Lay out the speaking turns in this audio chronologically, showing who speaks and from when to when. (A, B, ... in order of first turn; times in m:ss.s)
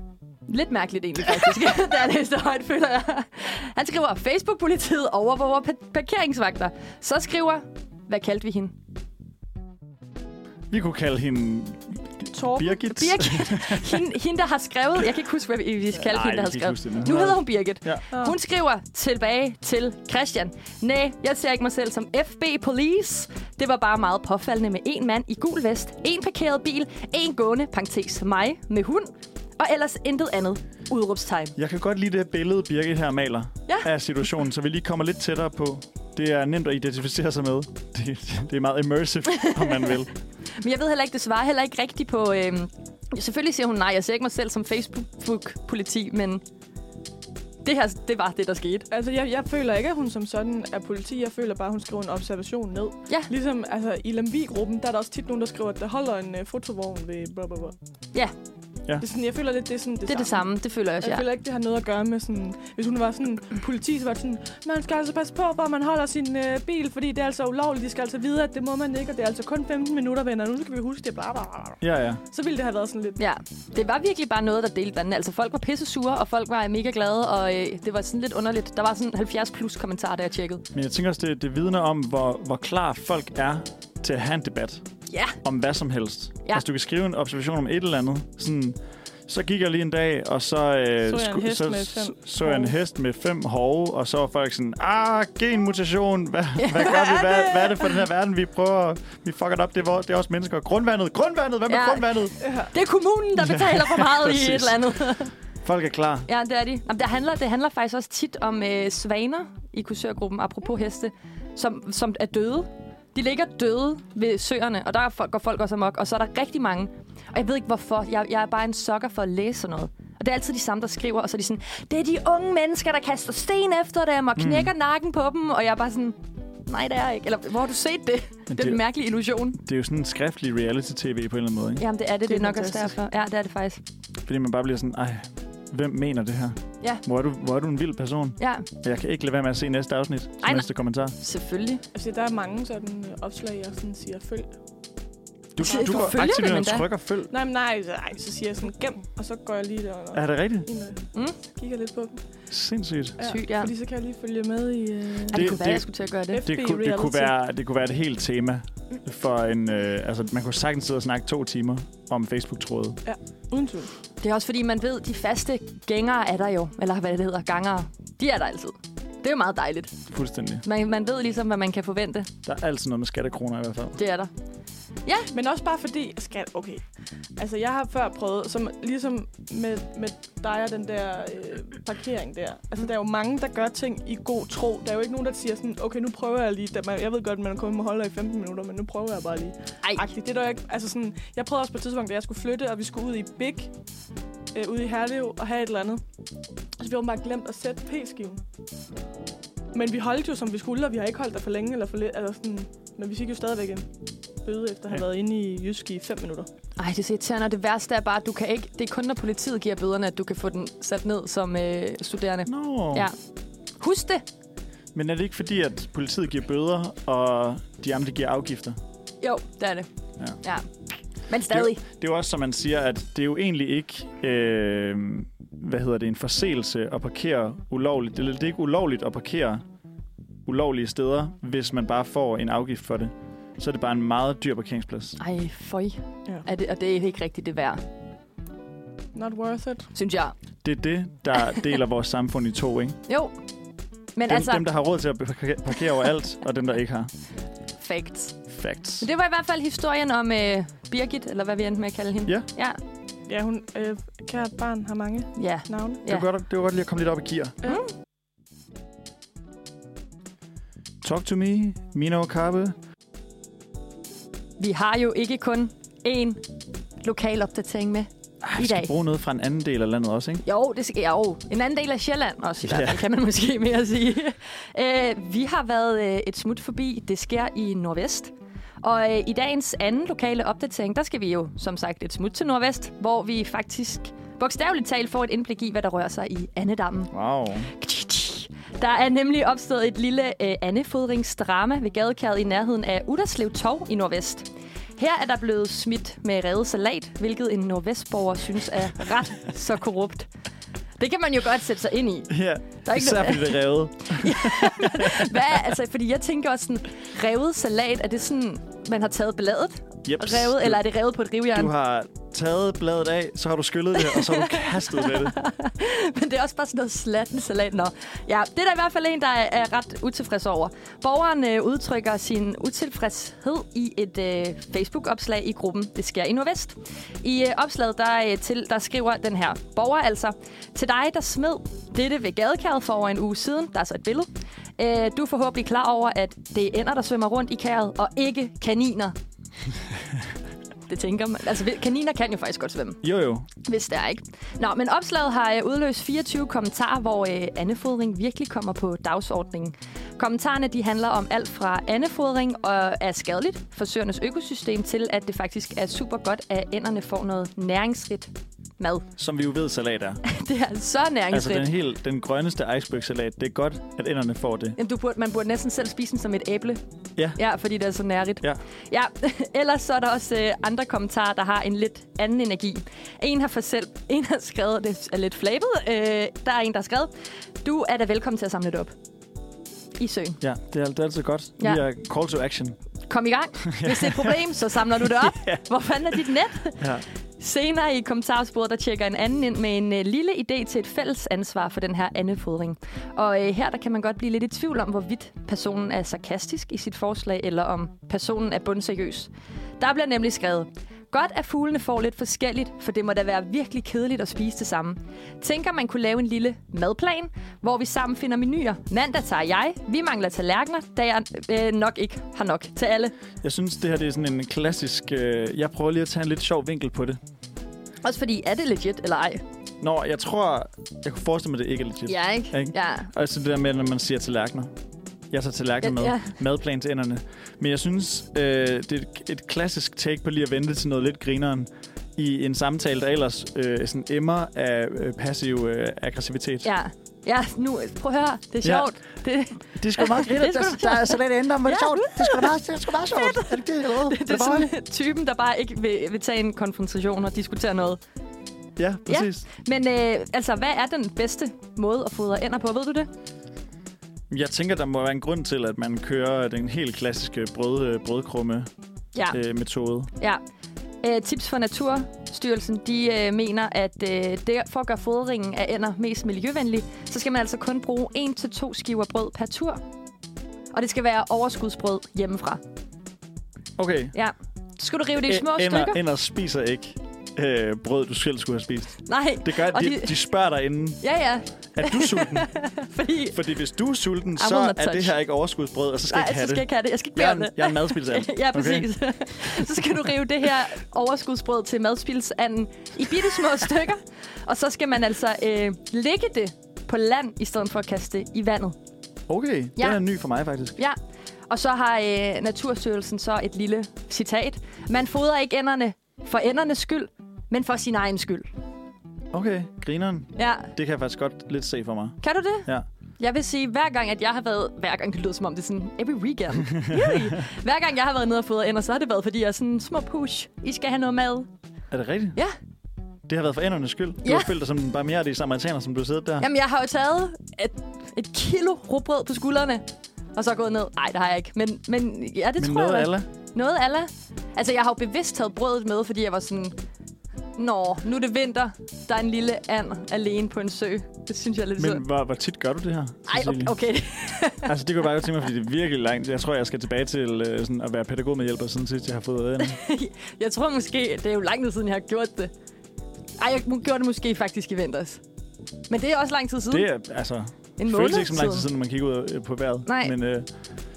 0:00.5-0:08.8 A
0:10.7-0:14.0 B
0:12.3-0:12.8 C
0:12.9-0:31.6 A
0:16.0-0:18.0 B
0:31.6-0:40.1 B
0:40.6-0:46.4 A
0:47.6-0:48.9 A
0:48.9-0:57.7 C
0:59.0-1:00.4 C
1:00.1-1:01.2 A
1:01.0-1:13.2 C
1:11.8-1:12.2 B
1:13.2-1:20.6 A
1:20.7-1:24.8 B
1:25.1-1:25.4 A
1:25.4-1:42.3 B
1:31.1-1:32.7 C
1:36.6-1:37.3 A
1:41.7-1:45.3 A
1:42.4-1:42.7 C
1:43.4-1:44.8 B
1:45.6-1:46.3 B
1:46.3-2:09.6 A
2:04.4-2:04.7 B
2:08.5-2:08.8 B
2:09.6-2:11.8 B
2:11.8-2:13.8 A
2:12.3-2:12.9 C
2:14.2-2:21.2 B
2:18.4-2:18.7 A
2:20.4-2:21.8 A
2:21.9-2:24.5 C
2:25.5-2:27.3 B
2:25.6-2:26.9 A
2:25.7-2:26.1 C
2:27.3-2:32.2 C
2:30.1-2:30.7 B
2:32.5-2:33.2 B
2:33.2-2:35.5 C
2:33.2-2:33.7 A
2:35.3-2:36.4 A
2:35.3-2:35.9 B
2:36.3-2:37.3 C
2:36.4-2:43.0 B
2:43.0-2:43.9 C
2:44.2-2:50.0 A
2:50.1-2:50.6 B
2:50.6-2:52.3 A
2:52.4-2:54.0 B
2:54.0-2:54.3 A
2:55.0-2:55.3 A
2:55.3-2:56.8 C
2:57.4-3:13.7 C
3:14.5-3:16.0 C
3:16.8-3:18.4 C
3:19.7-3:23.9 C
3:24.4-3:26.5 C
3:26.8-3:33.1 A
3:32.5-3:33.1 B
3:33.8-3:34.2 A
3:34.9-3:38.8 B
3:39.2-3:39.9 A
3:40.4-3:40.6 A
3:41.3-3:41.8 A
3:41.5-3:49.6 B
3:50.4-3:55.2 B
3:55.2-3:57.8 A
3:59.1-3:59.9 C
3:59.9-4:00.3 A
4:00.6-4:03.0 B
4:03.1-4:03.4 A
4:04.1-4:04.7 A
4:04.3-4:07.1 B
4:07.8-4:08.4 A
4:08.5-4:09.1 B
4:09.0-4:12.8 A
4:13.3-4:16.0 C
4:15.4-4:16.2 A
4:16.1-4:17.6 B
4:21.0-4:22.8 B
4:24.6-4:26.4 A
4:27.0-4:28.9 A
4:28.4-4:30.4 B
4:30.4-4:47.1 A
4:32.6-4:33.0 B
4:47.1-4:47.7 B
4:47.6-4:54.5 A
4:55.0-5:00.3 A
5:01.0-5:11.7 A
5:02.3-5:05.2 B
5:10.0-5:10.9 B
5:11.5-5:15.4 B
5:14.1-5:39.2 A
5:40.9-5:43.0 A
5:43.0-5:43.5 B
5:43.6-5:59.1 A
5:59.2-6:00.2 B
6:00.2-6:01.7 A
6:01.3-6:04.8 B
6:04.8-6:06.8 A
6:07.4-6:17.1 A
6:17.6-6:18.9 A
6:20.0-6:20.4 A
6:20.4-6:22.8 B
6:23.1-6:53.1 A
6:23.7-6:24.4 B
6:25.0-6:25.6 B
6:26.8-6:27.0 B
6:53.4-6:57.2 B
6:58.0-6:59.4 A
6:59.8-7:04.7 B
7:02.1-7:03.1 A
7:05.3-7:16.7 B
7:05.8-7:06.3 A
7:16.6-7:28.0 A
7:18.6-7:18.9 B
7:19.7-7:24.7 B
7:28.8-7:29.4 B
7:29.1-7:33.1 A
7:34.3-7:38.7 B
7:39.3-7:40.1 B
7:41.0-7:49.8 A
7:50.7-7:52.6 A
7:53.8-7:54.1 B
7:54.1-7:56.0 A
7:55.2-8:01.0 B
7:59.1-8:00.2 A
8:01.0-8:03.4 A
8:01.7-8:02.5 B
8:03.3-8:08.9 B
8:04.4-8:05.1 A
8:06.1-8:18.8 A
8:19.3-8:20.8 B
8:21.5-8:28.5 A
8:29.3-8:32.9 B
8:30.4-8:30.7 A
8:32.2-8:41.5 A
8:41.9-8:42.4 B
8:43.3-8:46.4 B
8:44.2-8:44.5 A
8:46.4-8:56.8 A
8:52.6-8:53.3 B
8:57.6-9:02.0 A
9:01.8-9:03.7 B
9:03.3-9:04.7 A
9:04.6-9:09.8 B
9:09.6-9:12.5 A
9:13.4-9:15.2 A
9:15.9-9:16.9 A
9:16.7-9:20.5 B
9:17.8-9:18.7 A
9:19.9-9:20.1 A